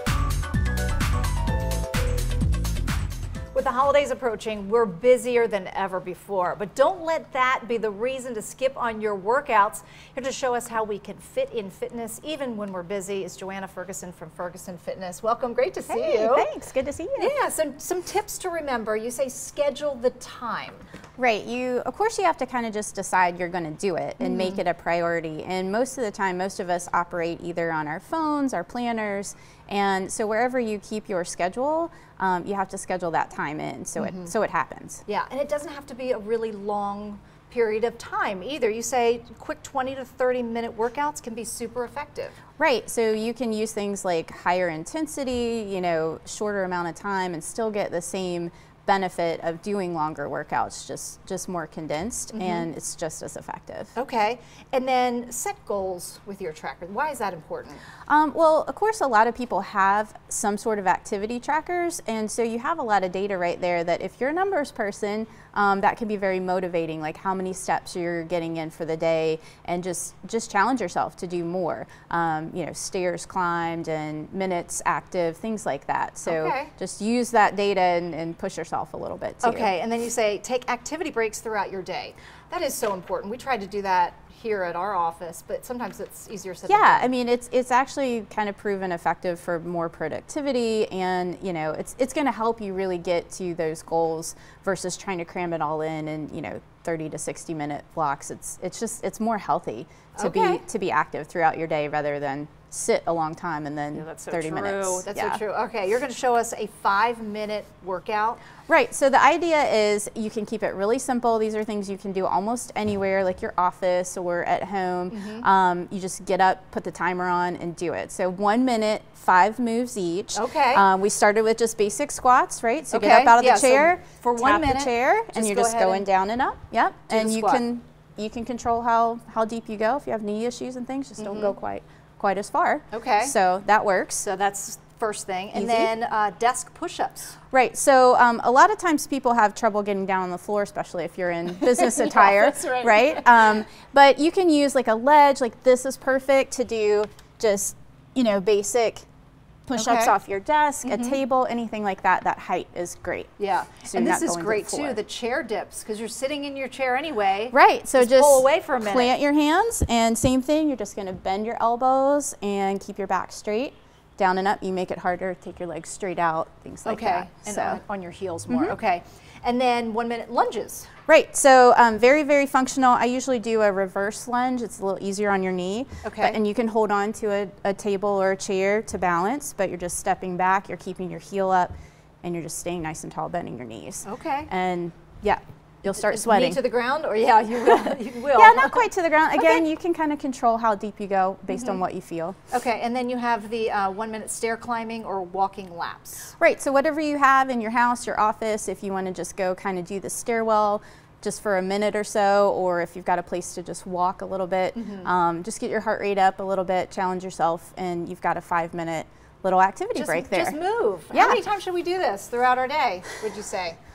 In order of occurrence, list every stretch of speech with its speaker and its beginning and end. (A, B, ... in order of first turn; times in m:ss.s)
0:03.5-0:16.5 A
0:15.9-0:17.3 B
0:17.2-0:20.8 A
0:21.2-0:35.0 B
0:24.2-0:24.6 A
0:34.0-0:34.3 A
0:35.1-0:42.4 A
0:42.6-0:53.9 B
0:52.3-0:52.7 A
0:53.9-0:57.8 A
0:58.1-1:19.7 B
1:16.2-1:16.7 A
1:19.4-1:27.1 A
1:26.7-1:45.4 B
1:40.1-1:40.6 A
1:43.9-1:48.4 A
1:48.7-2:14.2 B
1:55.1-1:55.5 A
2:00.3-2:00.8 A
2:02.9-2:06.1 A
2:07.1-2:07.6 A
2:11.2-2:11.5 A
2:12.9-2:13.3 A
2:14.2-2:17.4 A
2:15.5-2:15.9 B
2:17.5-2:29.0 B
2:21.6-2:23.4 A
2:29.7-2:35.0 B
2:29.8-2:30.1 A
2:30.8-2:31.2 A
2:33.4-2:39.1 A
2:37.5-2:47.8 B
2:46.8-2:50.9 A
2:48.5-2:48.7 B
2:51.1-3:05.2 B
2:56.0-2:56.4 A
3:04.0-3:04.5 A
3:05.8-3:06.7 B
3:05.9-3:09.6 A
3:07.8-3:12.4 B
3:11.5-3:11.8 A
3:12.5-3:16.3 A
3:16.4-3:30.6 B
3:24.7-3:25.1 A
3:30.0-3:33.8 A
3:31.1-3:31.4 B